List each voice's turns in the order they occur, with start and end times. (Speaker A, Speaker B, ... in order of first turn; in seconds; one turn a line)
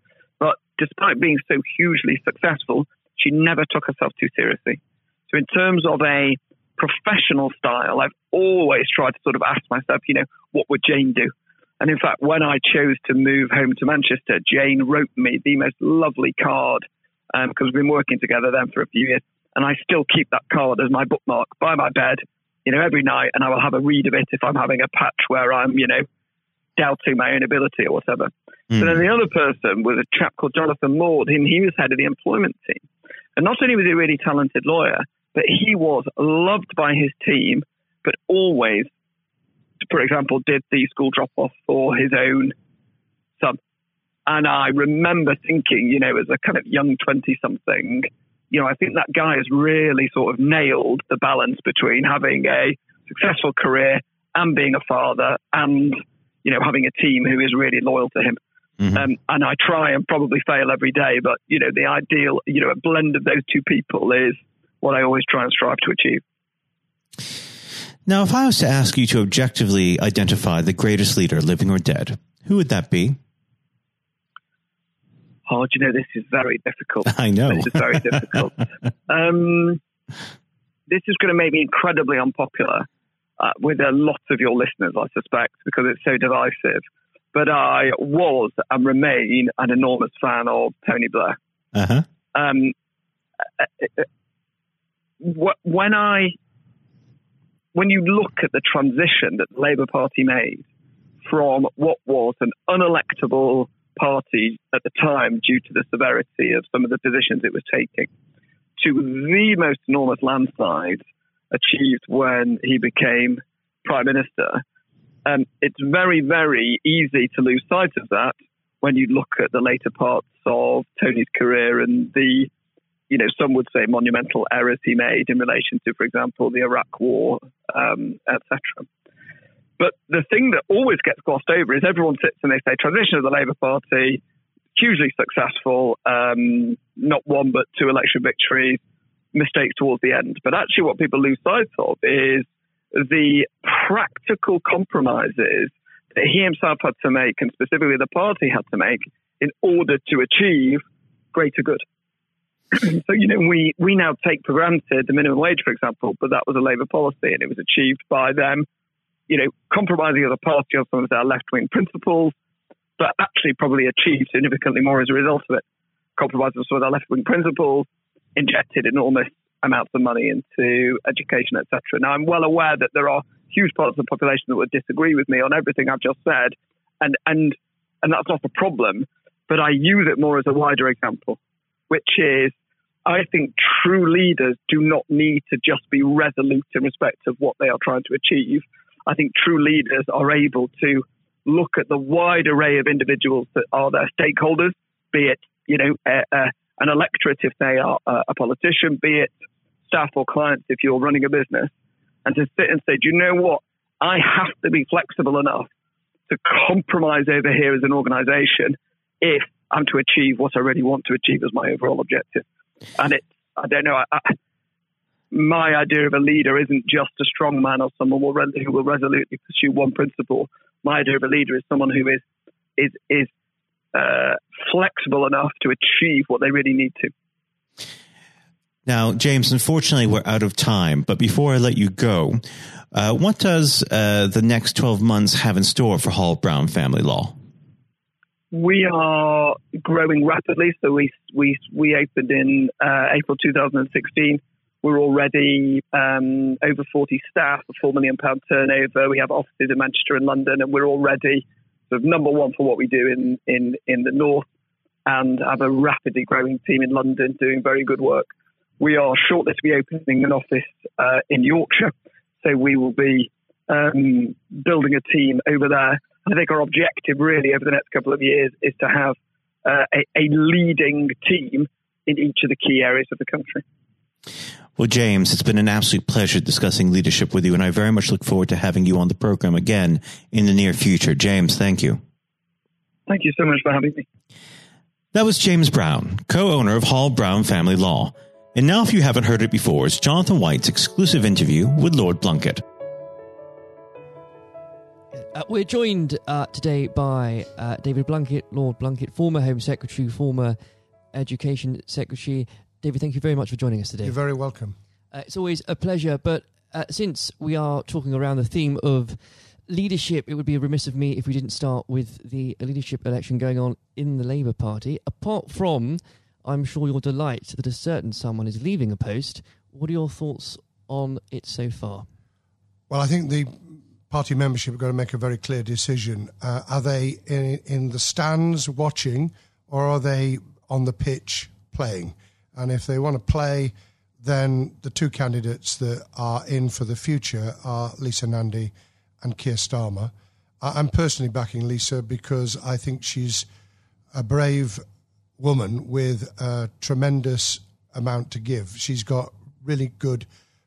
Speaker A: 0.4-26.0
Speaker A: 26.8-32.8
Speaker A: 33.4-38.9
Speaker A: 39.8-42.5
Speaker A: 44.3-58.4
Speaker A: 58.9-66.2
Speaker B: 68.0-73.2
Speaker A: 75.5-79.8
Speaker B: 77.1-78.2
Speaker A: 80.9-82.8
Speaker A: 83.4-86.8
Speaker A: 87.3-91.4
Speaker B: 91.7-92.0
Speaker A: 92.3-92.7
Speaker A: 93.6-94.0
Speaker A: 95.2-96.3
Speaker A: 97.7-100.6
Speaker A: 101.2-108.1
Speaker A: 108.8-114.6
Speaker A: 115.2-122.5
Speaker A: 123.1-128.9
Speaker A: 129.8-134.2
Speaker A: 134.7-138.8
Speaker A: 139.3-150.8
Speaker A: 151.3-151.8
Speaker A: 152.7-158.7
Speaker A: 159.3-162.3
Speaker A: 163.0-165.6
Speaker A: 166.2-181.4
Speaker A: 181.9-182.5
Speaker A: 183.1-199.3
Speaker A: 199.9-201.7
Speaker A: 202.2-205.7
Speaker A: 206.3-212.4
Speaker A: 212.9-214.3
Speaker A: 215.3-222.2
Speaker A: 222.8-223.3
Speaker A: 223.9-227.1
Speaker B: 228.8-237.3
Speaker A: 238.5-254.4
Speaker A: 255.1-273.6
Speaker B: 274.8-282.0
Speaker A: 283.1-284.0
Speaker B: 285.1-292.6
Speaker C: 295.1-300.6
Speaker C: 301.1-304.1
Speaker D: 304.0-304.8
Speaker C: 305.1-322.1
Speaker D: 322.9-343.4
Speaker D: 344.1-344.8
Speaker D: 345.4-350.3